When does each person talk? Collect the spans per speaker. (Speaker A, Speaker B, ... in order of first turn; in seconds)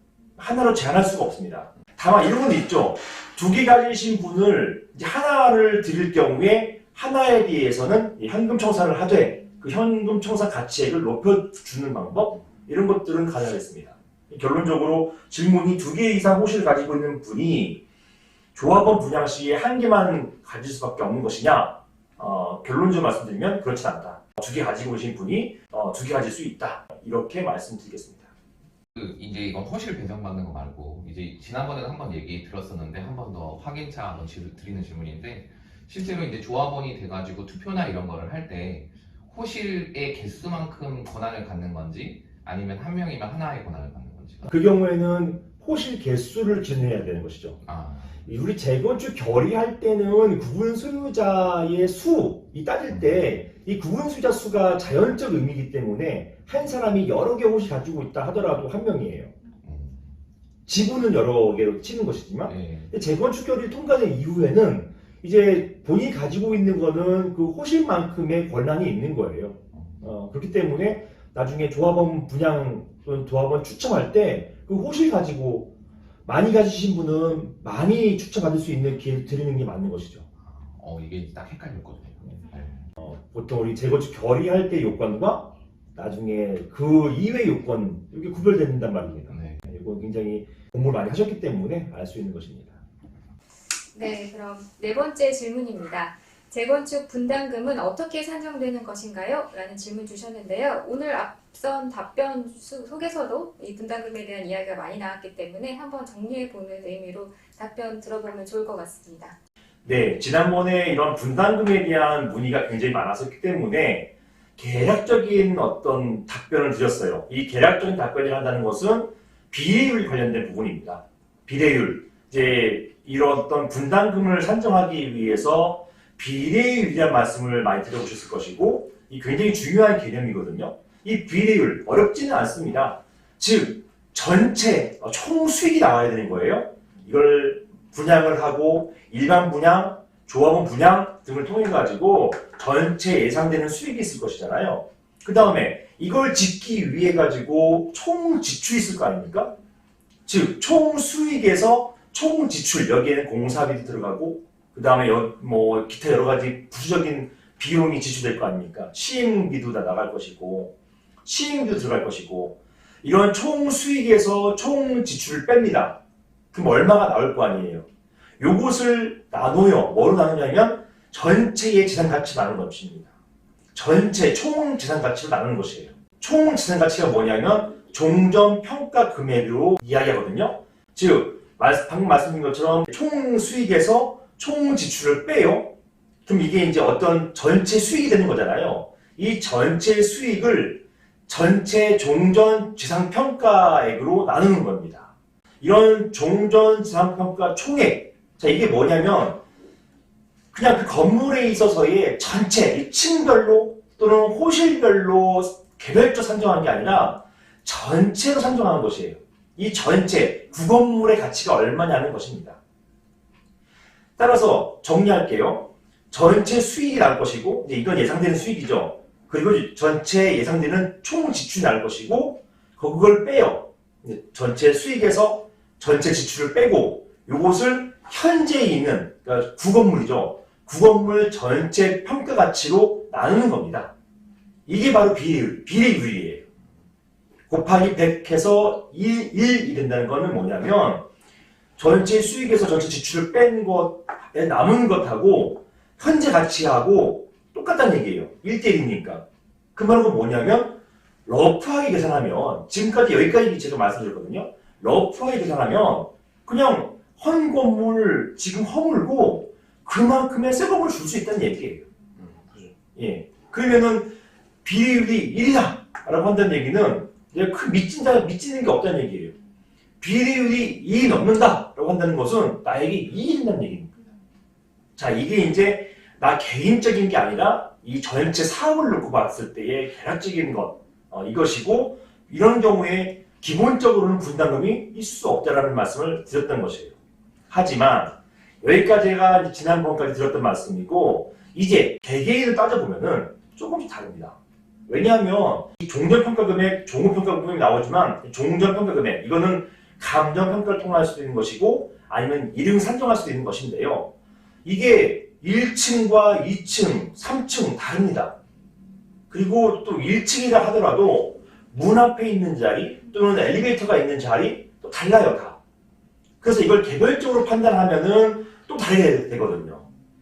Speaker A: 0.4-17.8, 18.5-28.3, 44.4-47.6, 48.2-59.3, 60.6-75.7, 76.2-80.2, 83.0-92.7, 109.8-149.5, 150.2-160.7, 161.2-166.0, 166.5-167.8, 168.4-173.1, 173.7-185.7, 186.2-195.1, 195.6-199.4, 200.5-212.6, 214.2-233.9, 234.7-236.4, 237.5-241.0, 241.8-249.2, 249.7-261.8, 262.9-269.3, 270.0-273.9, 274.9-286.9, 287.5-294.4, 294.9-304.1, 304.6-308.3, 309.3-315.6, 316.4-319.8
Speaker B: 28.9-44.5, 47.6-48.1, 52.9-53.2, 59.6-60.0, 62.5-62.9, 69.7-70.0, 80.4-82.7, 89.3-89.6
Speaker C: 93.9-109.3